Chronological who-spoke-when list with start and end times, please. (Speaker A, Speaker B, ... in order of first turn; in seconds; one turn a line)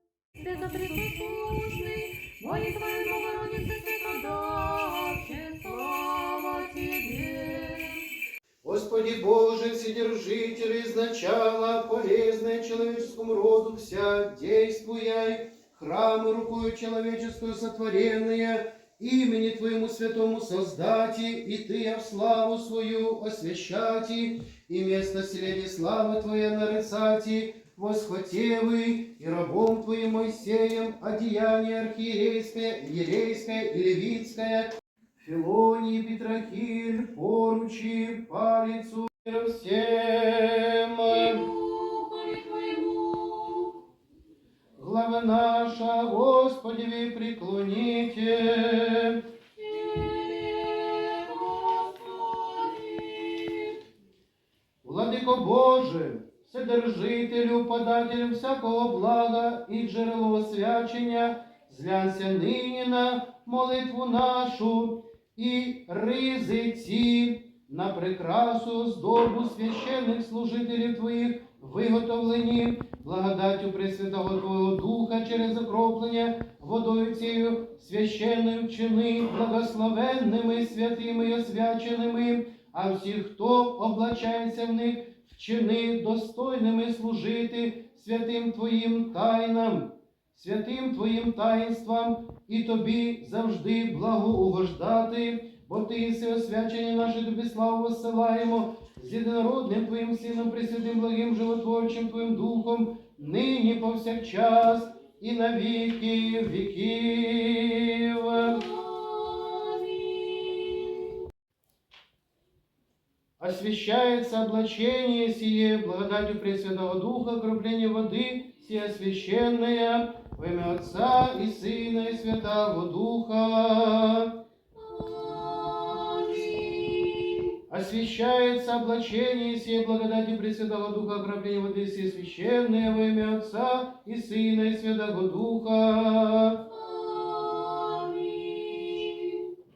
Speaker A: 0.3-8.0
Speaker B: 8.6-41.5
Speaker A: 41.1-43.8
Speaker B: 44.8-49.2
Speaker A: 49.6-53.8
Speaker B: 54.8-108.6
Speaker A: 108.4-111.2
Speaker B: 113.4-124.3
Speaker A: 124.8-127.5
Speaker B: 127.7-136.6
Speaker A: 136.7-139.5